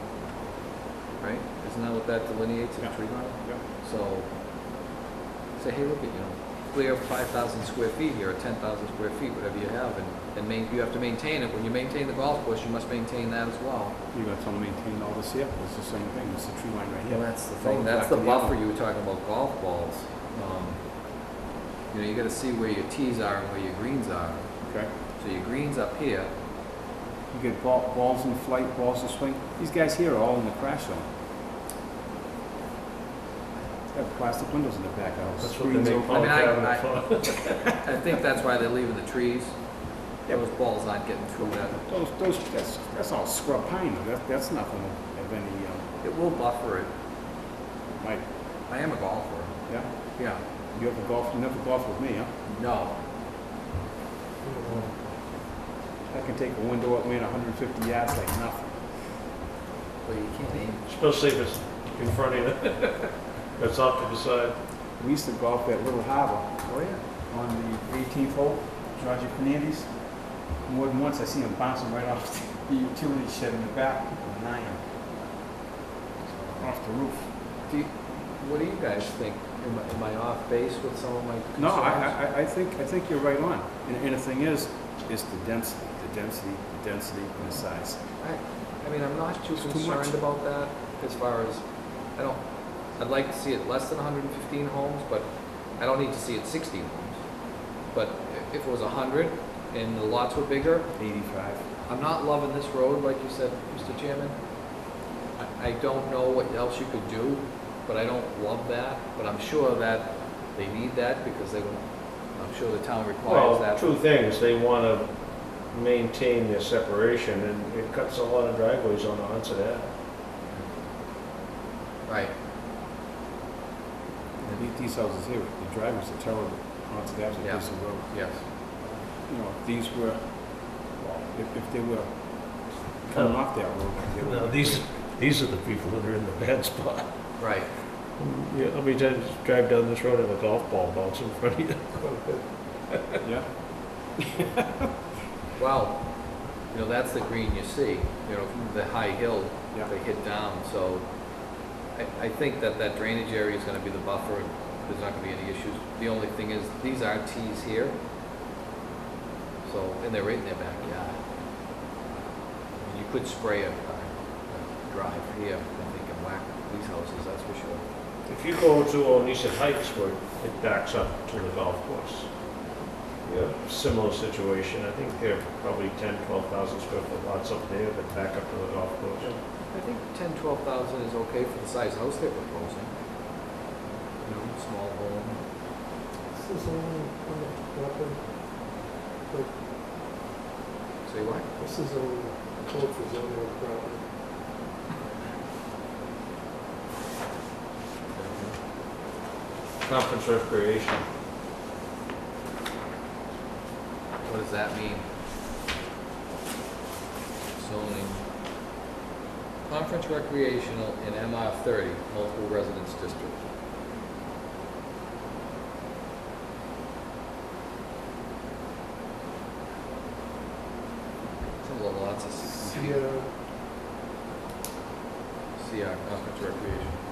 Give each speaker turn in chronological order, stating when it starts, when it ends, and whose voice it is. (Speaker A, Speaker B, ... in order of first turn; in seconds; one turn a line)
Speaker A: 1.2-4.3
Speaker B: 2.8-3.6
Speaker A: 5.6-14.0
Speaker B: 14.1-18.6
Speaker A: 17.1-21.3
Speaker A: 21.9-26.3
Speaker B: 24.6-24.9
Speaker B: 27.3-31.1
Speaker B: 33.9-36.3
Speaker C: 35.4-37.6
Speaker A: 36.1-41.8
Speaker B: 40.3-40.5
Speaker B: 41.4-45.9
Speaker A: 46.0-46.9
Speaker B: 48.0-48.3
Speaker A: 48.7-50.4
Speaker B: 49.7-52.4
Speaker A: 52.5-53.0
Speaker D: 54.4-55.0
Speaker B: 56.1-59.3
Speaker A: 60.0-60.9
Speaker C: 60.9-64.6
Speaker B: 65.0-74.9
Speaker A: 66.7-67.0
Speaker A: 76.3-76.7
Speaker B: 76.6-77.3
Speaker A: 77.6-82.2
Speaker B: 81.6-88.2
Speaker A: 88.2-101.0
Speaker B: 89.6-90.2
Speaker B: 101.0-101.7
Speaker A: 101.8-104.8
Speaker A: 105.4-113.9
Speaker C: 113.2-119.9
Speaker A: 120.5-120.7
Speaker A: 122.1-122.3
Speaker B: 124.4-134.9
Speaker A: 127.4-128.5
Speaker C: 133.1-137.6
Speaker A: 137.4-137.7
Speaker C: 138.1-142.0
Speaker D: 141.9-142.5
Speaker B: 143.2-144.2
Speaker A: 145.6-158.0
Speaker A: 159.6-161.2
Speaker A: 162.7-167.8
Speaker C: 168.3-172.3
Speaker C: 173.2-179.3
Speaker A: 179.7-182.9
Speaker A: 184.2-185.4
Speaker D: 186.3-188.6
Speaker D: 189.3-189.6
Speaker A: 191.1-191.5
Speaker D: 191.6-194.1
Speaker A: 198.1-198.6
Speaker C: 199.8-201.1
Speaker A: 204.2-205.1
Speaker A: 207.6-208.2
Speaker A: 209.7-213.4
Speaker A: 221.4-223.0
Speaker D: 222.6-223.3
Speaker A: 225.6-227.0